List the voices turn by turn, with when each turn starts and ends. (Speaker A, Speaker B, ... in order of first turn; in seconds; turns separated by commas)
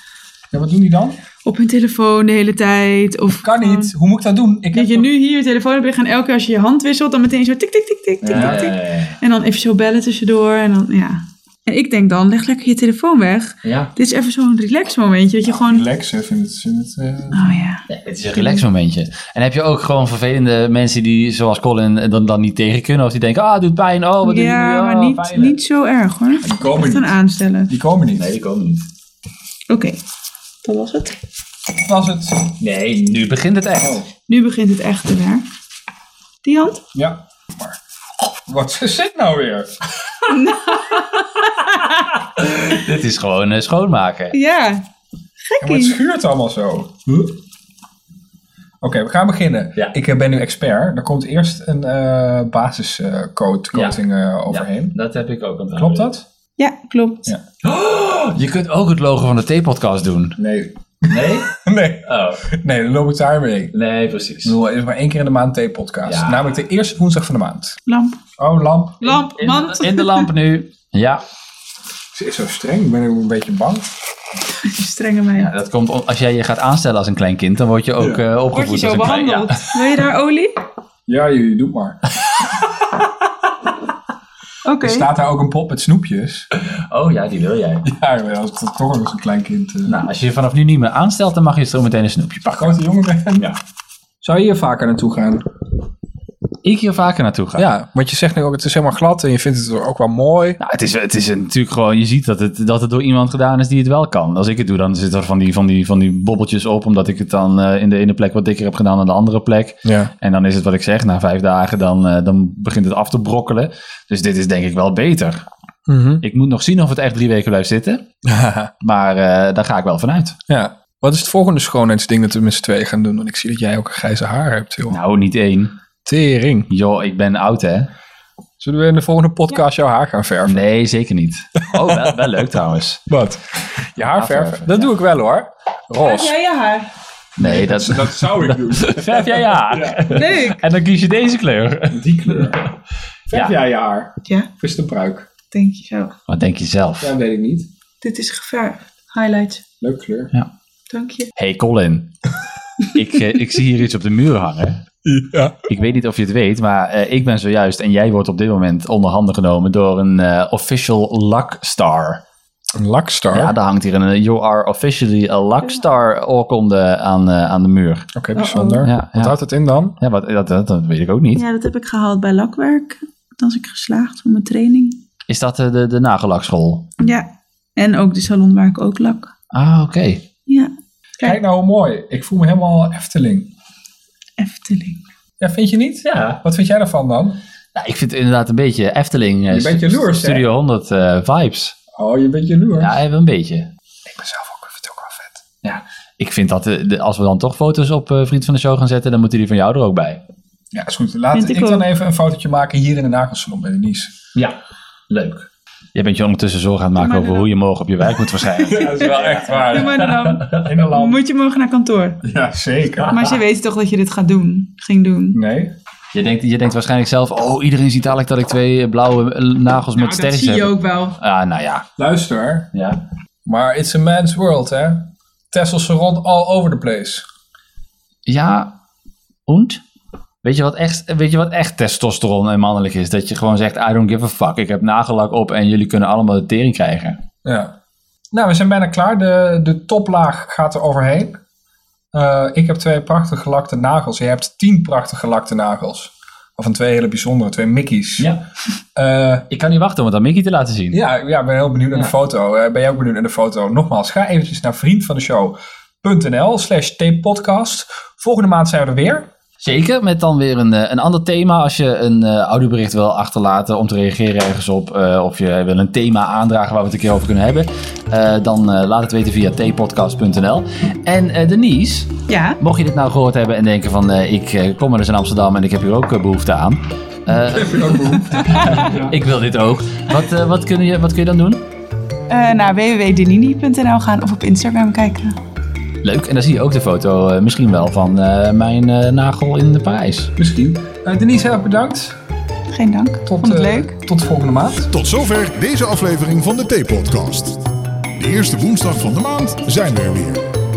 Speaker A: 0.5-1.2, Speaker B: 1.4-3.9, Speaker A: 3.4-5.1, Speaker B: 4.7-15.8, Speaker C: 8.2-9.2, Speaker A: 8.3-8.6, Speaker C: 13.6-13.9, Speaker A: 15.4-17.6, Speaker B: 17.3-18.6, Speaker C: 17.9-25.6, Speaker B: 24.2-27.7, Speaker A: 26.4-27.1, Speaker A: 27.7-28.3, Speaker C: 28.1-28.9, Speaker B: 29.7-30.0, Speaker B: 30.6-31.2, Speaker A: 31.8-32.5, Speaker C: 32.6-34.0, Speaker A: 33.7-34.0, Speaker B: 34.3-35.4, Speaker B: 36.4-36.8, Speaker A: 36.9-37.8, Speaker A: 38.4-40.3, Speaker B: 40.3-42.0, Speaker C: 42.3-44.4, Speaker B: 44.3-44.8, Speaker B: 45.4-46.0, Speaker A: 45.6-47.4, Speaker A: 48.8-55.0, Speaker C: 53.7-56.1, Speaker A: 55.7-56.2, Speaker B: 56.6-57.3, Speaker C: 57.6-60.4, Speaker A: 60.4-63.7, Speaker C: 61.1-62.5, Speaker C: 63.7-64.5, Speaker A: 64.4-67.8, Speaker C: 66.0-66.6, Speaker B: 67.9-68.2, Speaker A: 68.4-69.2, Speaker B: 69.0-70.3, Speaker C: 69.0-71.2, Speaker A: 72.1-73.9, Speaker B: 74.6-75.5, Speaker C: 75.3-79.6, Speaker B: 78.5-80.6, Speaker A: 81.1-82.0, Speaker B: 84.6-85.1, Speaker A: 84.8-86.5, Speaker C: 86.5-87.8, Speaker A: 87.8-90.0, Speaker C: 89.8-92.8, Speaker A: 92.5-93.5, Speaker C: 93.3-93.6, Speaker A: 94.2-95.4, Speaker C: 96.6-97.7, Speaker A: 97.6-100.6, Speaker C: 100.6-115.5, Speaker A: 109.8-110.1, Speaker A: 115.9-116.2, Speaker C: 116.2-118.0, Speaker A: 118.2-118.7, Speaker C: 118.8-120.3, Speaker A: 120.5-125.0, Speaker C: 124.9-125.7, Speaker A: 126.0-126.7, Speaker C: 126.7-127.9, Speaker A: 128.6-130.6, Speaker C: 130.5-133.0, Speaker A: 131.7-132.2, Speaker A: 133.1-136.3, Speaker C: 134.1-134.9, Speaker B: 136.0-136.9, Speaker C: 137.4-142.7, Speaker A: 137.4-140.3, Speaker B: 140.1-140.6, Speaker A: 141.9-142.6, Speaker A: 143.3-145.3, Speaker B: 145.5-146.1, Speaker C: 146.3-147.1, Speaker A: 147.0-147.7, Speaker B: 148.0-149.6, Speaker A: 149.8-150.3, Speaker B: 150.9-151.3, Speaker C: 151.3-152.1, Speaker C: 152.9-154.8, Speaker A: 155.0-155.7, Speaker C: 155.7-162.2, Speaker A: 162.8-163.5, Speaker C: 163.3-168.1, Speaker A: 168.1-170.0, Speaker B: 168.3-168.9, Speaker C: 168.8-169.3, Speaker C: 170.0-171.4, Speaker B: 171.3-175.0, Speaker C: 175.3-176.9, Speaker B: 177.0-179.3, Speaker C: 179.5-180.2, Speaker B: 180.5-181.4, Speaker A: 181.2-183.5, Speaker B: 184.4-185.0, Speaker A: 185.4-187.4, Speaker C: 186.0-186.4, Speaker C: 187.7-191.8, Speaker A: 189.5-190.5, Speaker A: 191.9-193.0, Speaker C: 192.8-193.7, Speaker A: 194.0-195.4, Speaker C: 195.6-200.2, Speaker A: 200.7-204.1, Speaker B: 201.3-201.8, Speaker C: 205.1-210.9, Speaker B: 207.0-207.5, Speaker A: 208.6-211.2, Speaker B: 208.8-212.2, Speaker A: 212.2-213.1, Speaker C: 213.0-213.4, Speaker B: 213.1-215.4, Speaker A: 215.3-215.7, Speaker C: 216.1-221.8, Speaker B: 219.9-221.2, Speaker A: 222.0-222.7, Speaker C: 222.7-223.0, Speaker A: 223.4-227.2, Speaker C: 228.3-228.7, Speaker C: 229.5-229.8, Speaker C: 230.4-237.2, Speaker A: 237.4-237.7, Speaker A: 238.3-241.4, Speaker A: 242.1-248.3, Speaker A: 248.9-249.4, Speaker C: 249.5-251.0, Speaker A: 250.9-259.3, Speaker C: 259.6-277.9, Speaker B: 272.3-272.6, Speaker A: 277.3-279.2, Speaker B: 278.3-278.9, Speaker C: 278.4-281.6, Speaker B: 282.3-285.4, Speaker C: 286.0-290.3, Speaker A: 290.4-292.2, Speaker B: 292.7-293.9, Speaker A: 293.3-294.9, Speaker D: 294.9-297.6, Speaker D: 298.2-300.4